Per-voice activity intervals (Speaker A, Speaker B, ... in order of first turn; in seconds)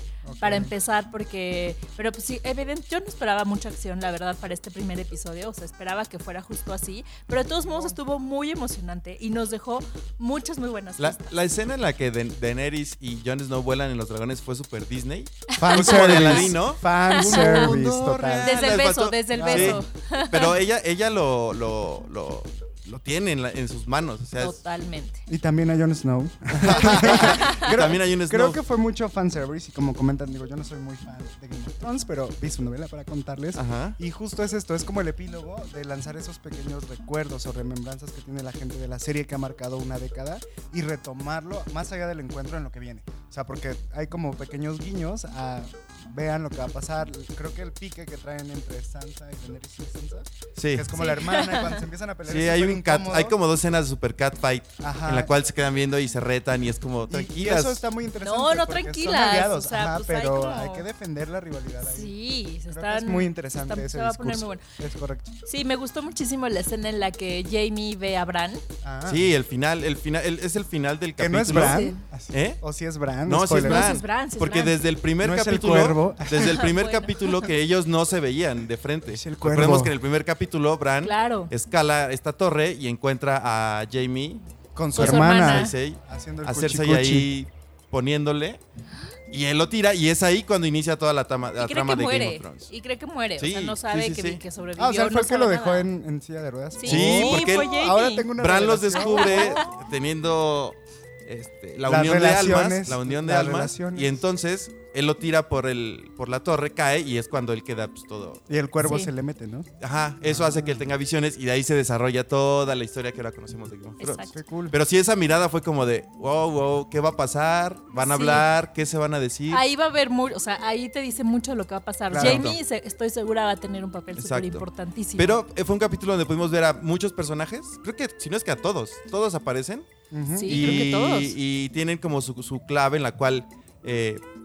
Speaker A: 0.3-0.7, 7.6-8.0, 15.6-18.6, 19.3-19.8, 25.3-53.4, 54.8-55.3, 57.1-62.1, 62.7-65.3, 68.8-69.3, 71.2-73.9, 75.2-76.7, 79.1-80.0, 84.8-87.3, 94.8-99.6, 101.8-104.2, 108.5-109.7, 110.2-110.9, 114.3-114.8, 122.1-122.5, 130.1-130.9
Speaker B: 0.4-11.3, 15.5-16.6, 17.1-17.7, 18.4-20.6, 24.4-25.2, 27.0-27.7, 51.0-51.9, 58.2-60.9, 61.8-64.6, 65.5-68.6, 71.5-72.0, 73.6-74.8, 76.6-77.5, 81.0-81.5, 84.9-85.7, 91.6-95.9, 96.8-98.3, 98.9-99.6, 108.8-109.1, 114.0-114.4, 118.0-118.5, 119.5-125.4, 130.3-131.4
Speaker C: 11.0-24.6, 26.7-28.6, 33.5-34.0, 50.6-50.9, 52.2-57.9, 69.1-72.6, 73.3-84.4, 85.0-88.6, 89.3-92.7, 93.4-94.4, 96.8-97.8, 98.3-108.4, 109.8-119.6, 122.2-122.6, 124.2-129.9, 130.5-134.2